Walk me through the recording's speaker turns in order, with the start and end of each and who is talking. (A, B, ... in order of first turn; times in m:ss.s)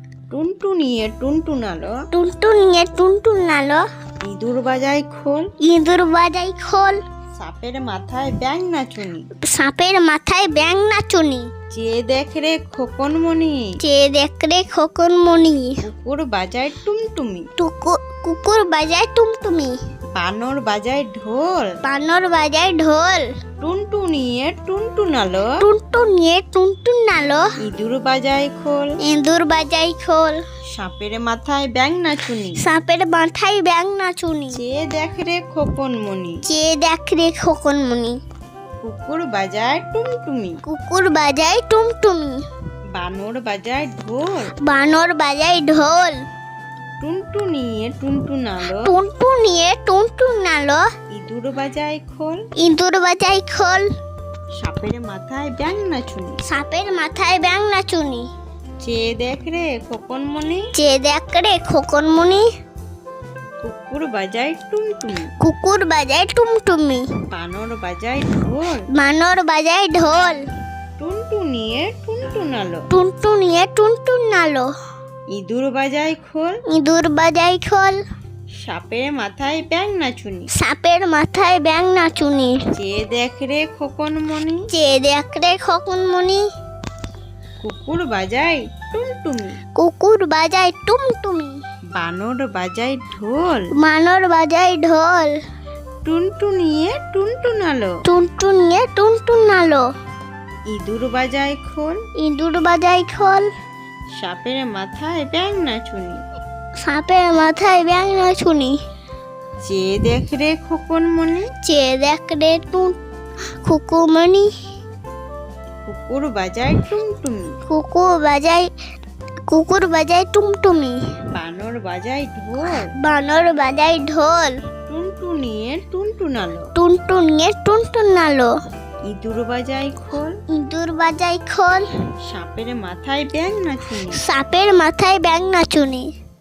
0:00.3-0:02.0 A
0:02.1-0:03.8 B
0:04.2-0:05.5 A
0:05.6-0:07.0 B
0:07.4-0:09.3 A
0:09.5-0:11.5 B
0:11.7-0:13.7 A
0:13.8-0:15.8 B
0:15.8-0:17.4 A
0:17.6-0:19.7 B
0:20.1-0:21.8 A
0:21.8-0:23.2 B
0:23.6-0:25.6 A
0:25.6-0:27.5 B
0:27.6-0:28.9 A
0:29.0-0:30.4 B
0:30.7-0:32.6 A
0:32.6-0:34.6 B
0:34.5-0:36.4 A
0:36.4-0:38.2 B
0:38.8-0:40.6 A
0:40.6-0:42.4 B
0:42.9-0:44.5 A
0:44.6-0:46.2 B
0:47.0-0:48.9 A
0:48.8-0:50.8 B
0:51.1-0:52.4 A
0:52.6-0:53.8 B
0:54.6-0:56.4 A
0:56.5-0:58.3 B
0:58.8-1:00.7 A
1:00.7-1:02.4 B
1:03.6-1:05.3 A
1:05.4-1:07.0 B
1:07.3-1:08.9 A
1:08.9-1:10.4 B
1:11.0-1:12.8 A
1:12.9-1:14.7 B
1:15.3-1:16.6 A
1:16.7-1:18.0 B
1:18.6-1:20.5 A
1:20.6-1:22.6 B
1:22.7-1:24.6 A
1:24.7-1:26.4 B
1:27.6-1:29.6 A
1:29.8-1:31.6 B
1:32.0-1:33.7 A
1:33.8-1:35.3 B
1:36.0-1:38.0 A
1:38.0-1:39.8 B
1:40.7-1:42.0 A
1:42.2-1:43.5 B
1:44.2-1:46.2 A
1:46.8-1:48.8 B
1:49.6-1:51.5 A
1:51.6-1:53.0 B
1:53.6-1:54.5 B
1:55.8-1:57.4 A
1:57.7-1:58.7 B
1:59.5-2:01.0 B
2:01.3-2:02.9 A
2:03.0-2:04.6 B
2:04.9-2:06.7 A
2:06.8-2:08.5 B
2:09.1-2:10.3 A
2:10.5-2:11.8 B
2:12.3-2:14.2 A
2:14.1-2:16.1 B